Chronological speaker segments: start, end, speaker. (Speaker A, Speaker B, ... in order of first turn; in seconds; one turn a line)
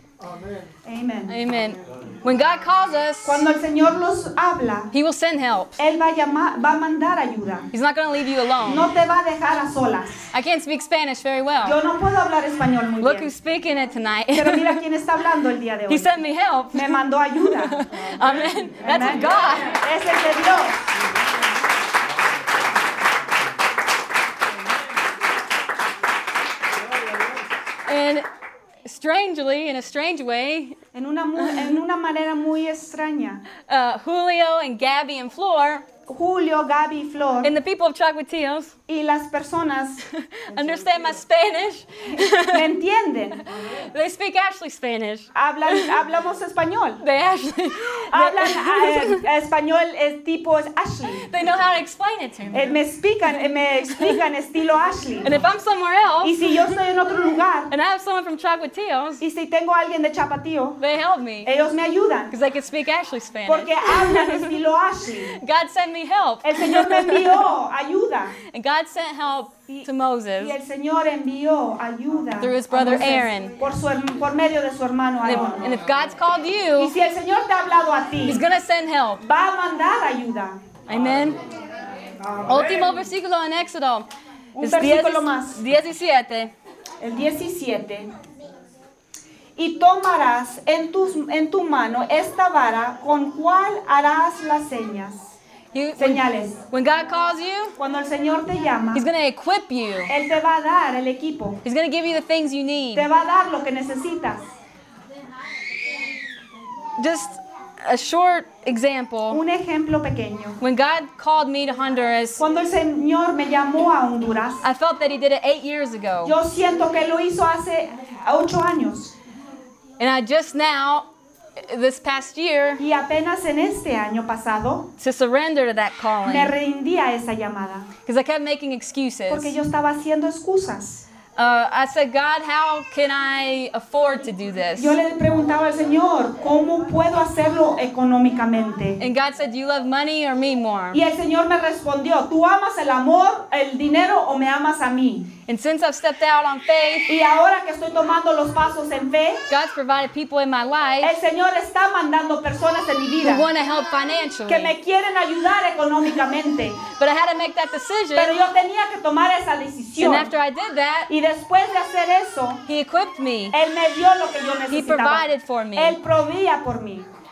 Speaker A: 0.2-0.7
Speaker B: 0.8-1.4
Speaker C: 1.3-3.5
Speaker B: 3.2-4.9
Speaker C: 4.9-5.8
Speaker B: 5.8-7.7
Speaker C: 7.7-8.9
Speaker B: 8.6-10.3
Speaker C: 10.3-11.8
Speaker B: 11.6-13.3
Speaker C: 13.0-14.8
Speaker B: 14.3-16.1
Speaker C: 15.9-19.8
Speaker B: 16.7-17.8
Speaker A: 17.9-19.6
Speaker B: 18.8-20.8
Speaker A: 26.7-27.5
Speaker C: 27.9-28.2
Speaker C: 28.8-30.8
Speaker B: 30.9-33.4
Speaker C: 33.7-35.8
Speaker B: 36.1-37.5
Speaker C: 37.4-38.7
Speaker B: 38.9-40.0
Speaker C: 40.1-42.7
Speaker A: 40.5-41.2
Speaker B: 42.2-43.4
Speaker C: 43.6-45.9
Speaker B: 45.3-47.0
Speaker C: 47.0-49.2
Speaker B: 48.1-51.2
Speaker C: 51.2-52.8
Speaker B: 52.5-55.3
Speaker C: 53.9-54.2
Speaker C: 55.2-56.7
Speaker B: 56.2-57.7
Speaker C: 57.7-59.2
Speaker B: 59.2-60.8
Speaker C: 60.8-61.5
Speaker B: 61.4-62.3
Speaker C: 62.3-64.5
Speaker B: 63.5-65.4
Speaker C: 65.3-67.5
Speaker B: 66.4-68.4
Speaker C: 68.5-70.5
Speaker B: 69.7-75.8
Speaker C: 72.4-73.5
Speaker C: 75.2-76.9
Speaker B: 76.8-78.4
Speaker C: 78.2-79.2
Speaker B: 79.2-80.6
Speaker C: 80.9-81.4
Speaker A: 82.2-83.0
Speaker C: 82.5-86.5
Speaker B: 84.5-85.6
Speaker B: 87.0-88.1
Speaker B: 89.5-95.3
Speaker C: 95.7-97.8
Speaker B: 96.0-96.6
Speaker B: 97.8-99.1
Speaker C: 98.9-100.1
Speaker B: 100.1-101.6
Speaker C: 101.6-103.1
Speaker B: 102.9-104.5
Speaker C: 107.0-109.4
Speaker B: 109.3-110.6
Speaker C: 110.6-112.4
Speaker B: 112.4-114.6
Speaker C: 114.6-116.3
Speaker B: 116.2-119.1
Speaker C: 120.0-122.8
Speaker B: 122.8-124.9
Speaker C: 125.0-126.5
Speaker B: 126.2-127.9
Speaker C: 128.1-129.6
Speaker B: 129.3-131.1
Speaker C: 131.3-135.0
Speaker B: 134.8-139.0
Speaker C: 139.0-141.0
Speaker B: 140.9-145.3
Speaker C: 145.5-147.2
Speaker B: 147.1-149.4
Speaker C: 149.5-151.2
Speaker B: 151.0-153.4
Speaker C: 153.2-154.7
Speaker B: 154.5-156.8
Speaker C: 156.8-158.4
Speaker B: 158.1-160.3
Speaker C: 160.0-161.1
Speaker B: 161.1-162.6
Speaker C: 162.7-163.6
Speaker B: 163.5-167.1
Speaker C: 164.7-166.0